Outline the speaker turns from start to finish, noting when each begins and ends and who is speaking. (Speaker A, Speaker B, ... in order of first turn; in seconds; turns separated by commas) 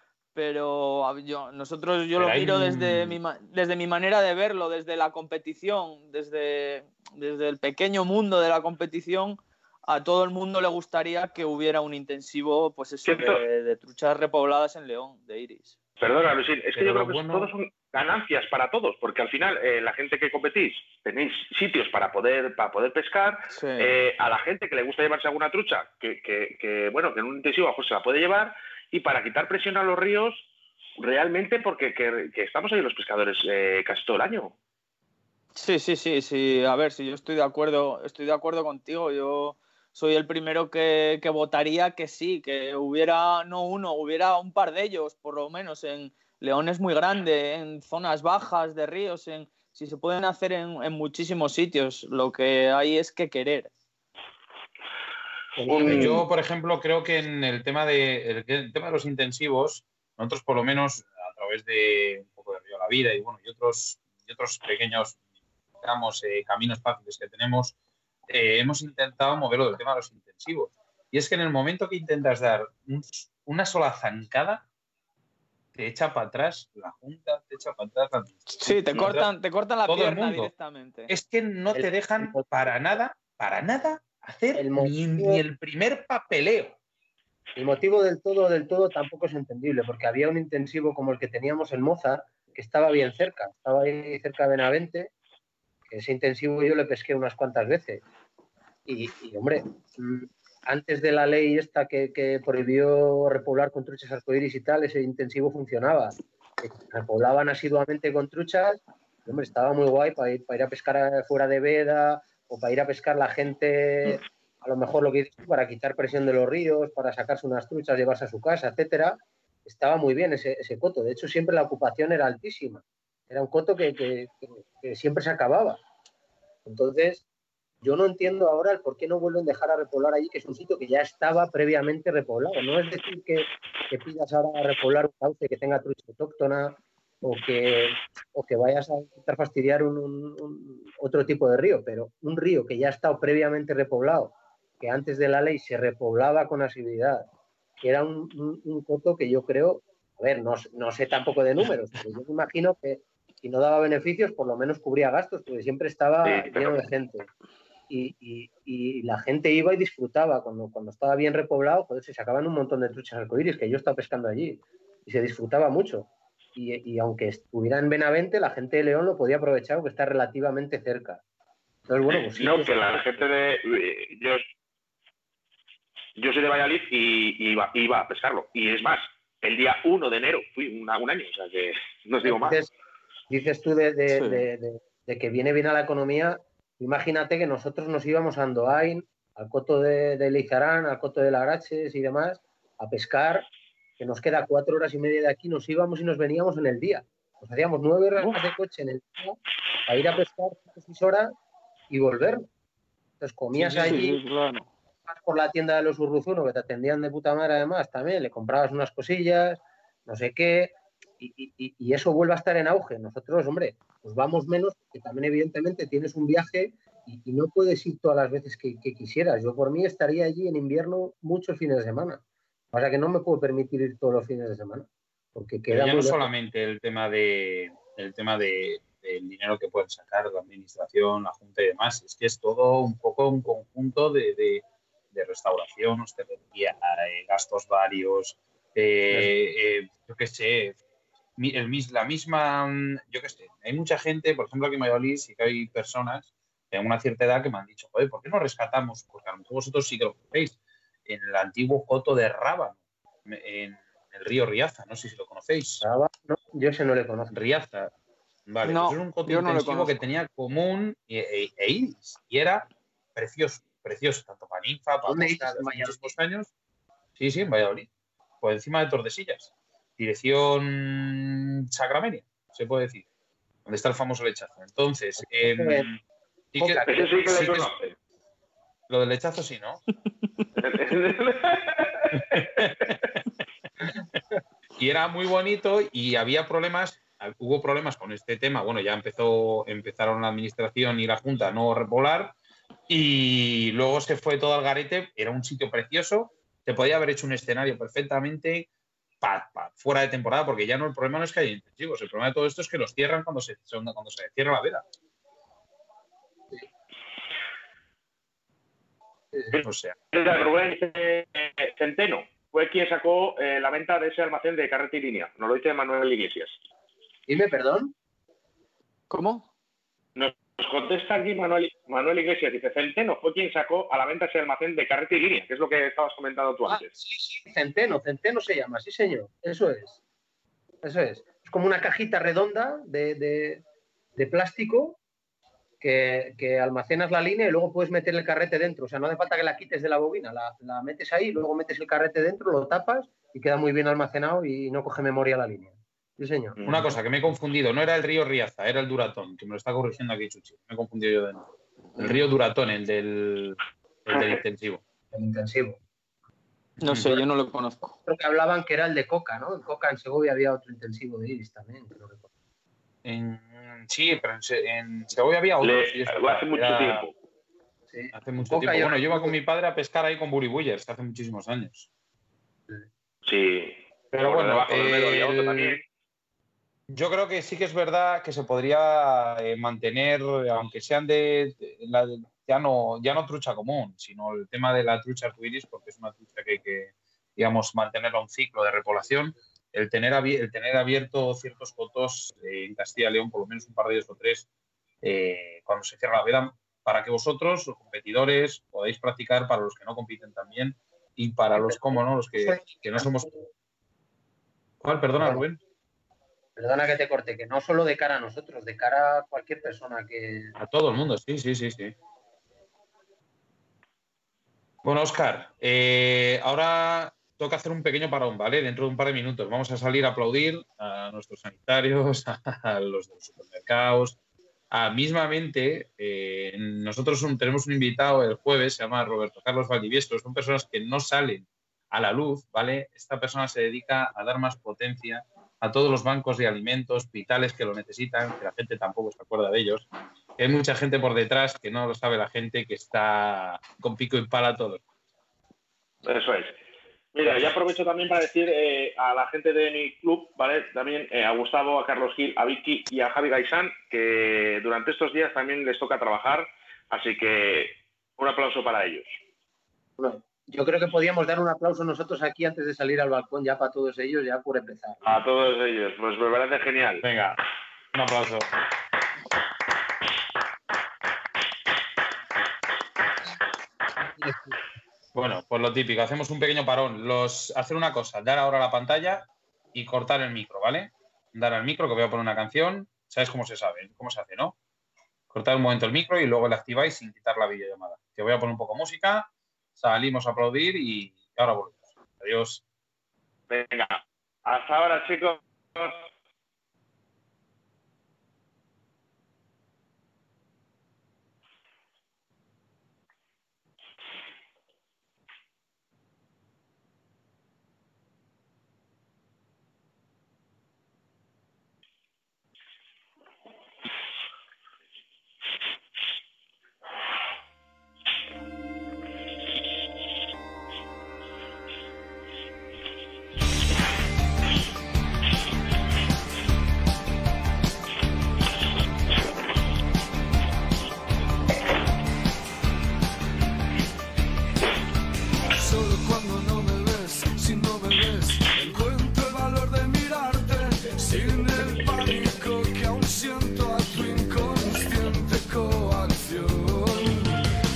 Speaker A: 0.3-15.7, Speaker B: 2.2-3.2, Speaker C: 13.0-13.4, Speaker C: 16.0-30.5, Speaker B: 16.7-17.5, Speaker A: 23.5-23.9, Speaker C: 31.0-34.5, Speaker A: 35.5-53.7, Speaker D: 55.6-56.2, Speaker C: 55.7-56.2, Speaker B: 55.9-65.2, Speaker B: 65.8-67.7, Speaker B: 68.3-74.7, Speaker B: 75.7-79.3, Speaker A: 78.5-81.1, Speaker B: 79.9-80.5, Speaker B: 81.1-86.8, Speaker D: 81.7-82.5, Speaker D: 84.5-85.4, Speaker D: 87.5-95.1, Speaker D: 95.9-98.0, Speaker D: 98.8-125.8, Speaker D: 126.7-127.2, Speaker D: 127.8-147.3, Speaker D: 147.8-157.3, Speaker C: 156.2-156.8, Speaker D: 157.9-171.2, Speaker D: 171.9-172.7, Speaker C: 172.1-174.4, Speaker C: 176.2-182.6, Speaker D: 182.2-182.7, Speaker D: 183.3-193.5, Speaker A: 184.1-184.4, Speaker D: 194.0-201.3, Speaker D: 201.9-202.4, Speaker D: 203.2-204.2, Speaker A: 203.5-204.7, Speaker D: 205.1-226.3, Speaker B: 225.7-240.8, Speaker B: 241.4-255.8, Speaker D: 255.8-257.4, Speaker B: 257.3-257.9, Speaker B: 258.5-266.5, Speaker A: 258.6-260.0, Speaker D: 265.0-266.1, Speaker B: 267.2-267.9, Speaker B: 268.4-273.0, Speaker B: 273.6-276.0, Speaker D: 275.2-275.9, Speaker B: 276.5-277.7, Speaker D: 276.6-277.1, Speaker C: 276.9-277.9, Speaker B: 278.9-279.8, Speaker C: 280.6-282.9, Speaker B: 282.1-283.2, Speaker B: 284.8-292.3, Speaker B: 292.9-298.7, Speaker B: 299.2-304.8, Speaker C: 309.5-316.5, Speaker B: 309.6-309.9, Speaker D: 317.3-317.9, Speaker A: 319.1-319.5, Speaker C: 320.1-326.9, Speaker D: 326.7-330.0, Speaker D: 330.8-333.6, Speaker D: 334.1-335.0, Speaker D: 335.8-346.6, Speaker C: 346.6-346.9, Speaker B: 346.6-354.8, Speaker C: 354.1-354.4, Speaker D: 355.1-355.8, Speaker A: 356.8-357.9, Speaker B: 356.8-357.2, Speaker D: 358.1-362.3, Speaker B: 363.0-367.1, Speaker C: 365.6-367.1, Speaker D: 367.9-369.4, Speaker B: 368.1-371.9, Speaker C: 373.2-375.8, Speaker B: 374.1-375.8, Speaker B: 376.9-394.5, Speaker B: 395.0-403.3, Speaker D: 401.6-403.5, Speaker B: 404.8-405.6, Speaker D: 405.2-405.4, Speaker D: 406.6-410.5, Speaker B: 410.6-411.9, Speaker B: 414.8-424.1, Speaker B: 424.7-439.9, Speaker B: 440.4-444.8, Speaker C: 446.0-446.6, Speaker C: 447.1-459.1, Speaker D: 460.0-465.0, Speaker C: 465.0-467.0, Speaker B: 467.0-467.4, Speaker B: 467.9-468.5, Speaker D: 474.1-474.6, Speaker B: 475.1-484.6, Speaker B: 485.3-492.6, Speaker C: 493.5-496.1, Speaker E: 535.5-547.4